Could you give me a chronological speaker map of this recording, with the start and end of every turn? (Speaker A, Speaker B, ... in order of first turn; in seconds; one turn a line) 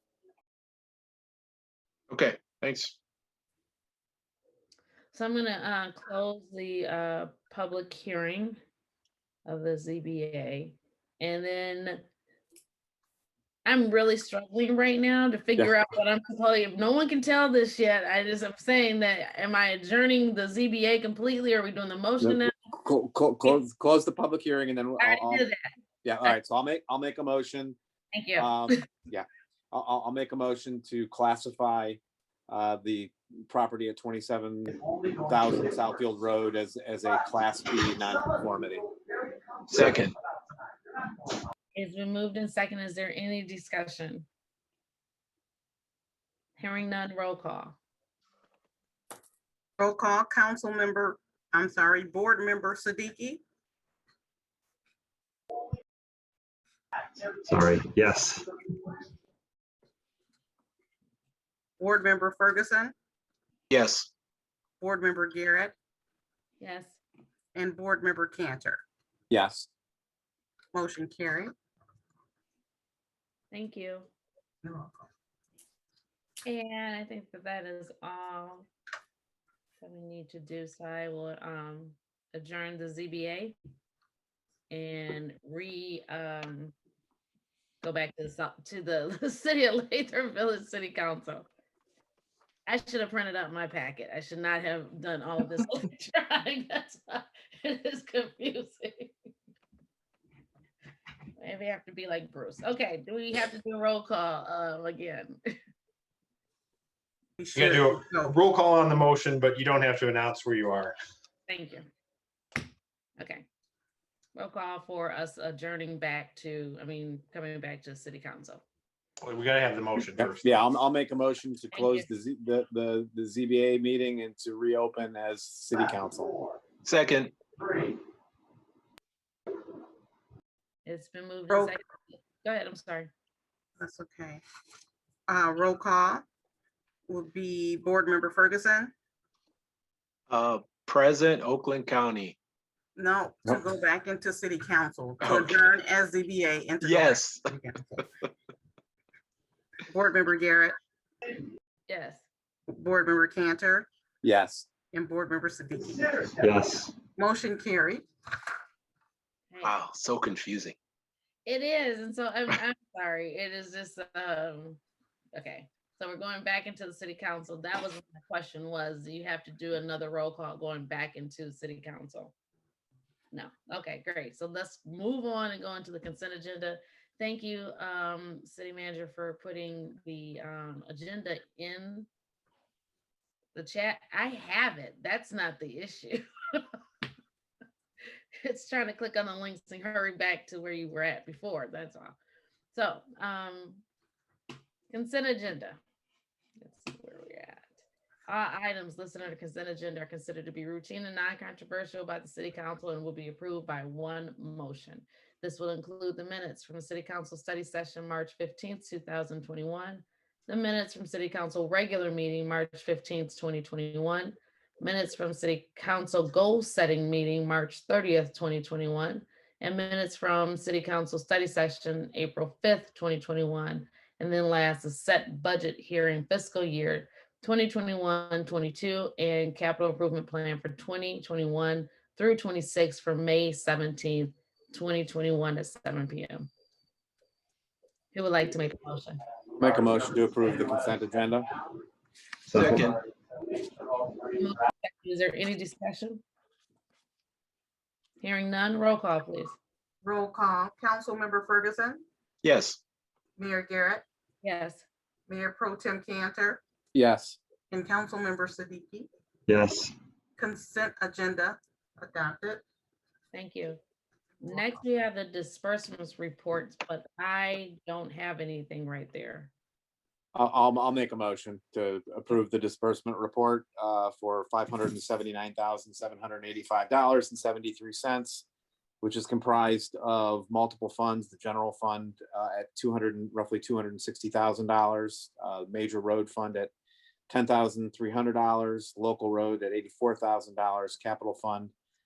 Speaker A: 2.1-3.0
Speaker B: 5.1-8.6
Speaker B: 9.4-12.0
Speaker B: 13.6-22.5
Speaker C: 22.2-25.4
Speaker B: 25.0-25.7
Speaker C: 26.0-27.8
Speaker B: 28.1-28.8
Speaker C: 28.4-38.9
Speaker A: 39.7-40.1
Speaker B: 41.7-44.3
Speaker B: 46.6-47.8
Speaker D: 49.8-53.4
Speaker E: 57.5-58.4
Speaker D: 61.8-62.9
Speaker A: 63.7-64.1
Speaker D: 64.8-65.7
Speaker B: 66.6-67.0
Speaker D: 67.5-68.8
Speaker C: 69.3-69.7
Speaker D: 70.7-71.5
Speaker B: 73.5-74.1
Speaker D: 74.6-75.0
Speaker B: 76.5-78.7
Speaker B: 79.8-83.5
Speaker B: 84.7-86.7
Speaker B: 87.8-91.5
Speaker B: 92.7-99.1
Speaker B: 101.4-105.5
Speaker D: 107.4-108.4
Speaker F: 107.5-110.9
Speaker B: 111.5-111.9
Speaker B: 113.2-113.5
Speaker B: 114.3-118.6
Speaker F: 119.2-120.6
Speaker C: 120.1-126.4
Speaker B: 121.7-122.1
Speaker A: 126.8-127.3
Speaker B: 130.8-133.1
Speaker D: 133.8-134.4
Speaker D: 135.3-136.2
Speaker D: 137.1-138.9
Speaker A: 140.3-142.4
Speaker D: 142.9-148.0
Speaker A: 145.2-145.6
Speaker A: 146.8-147.5
Speaker D: 149.9-150.7
Speaker B: 151.9-152.2
Speaker D: 152.7-153.9
Speaker C: 154.2-154.7
Speaker D: 154.9-156.1
Speaker E: 156.4-156.9
Speaker D: 157.2-158.1
Speaker A: 159.6-160.8
Speaker B: 161.4-164.8
Speaker B: 165.3-172.3
Speaker B: 173.3-182.1
Speaker B: 183.5-186.8
Speaker B: 188.4-192.2
Speaker B: 192.7-193.8
Speaker B: 194.9-195.8
Speaker B: 196.6-197.7
Speaker B: 198.3-236.5
Speaker B: 238.1-239.2
Speaker C: 239.6-241.5
Speaker E: 242.5-242.8
Speaker A: 242.5-243.0
Speaker B: 244.3-246.2
Speaker B: 248.2-249.6
Speaker D: 250.0-252.0
Speaker A: 252.4-252.8
Speaker D: 253.4-254.0
Speaker B: 254.4-254.8
Speaker D: 255.3-256.6
Speaker C: 256.9-257.4
Speaker D: 257.7-259.1
Speaker E: 259.5-259.9
Speaker D: 260.4-262.6
Speaker B: 263.3-263.8
Speaker B: 264.4-269.5
Speaker C: 270.3-278.4
Speaker C: 279.0-286.7
Speaker C: 287.3-291.7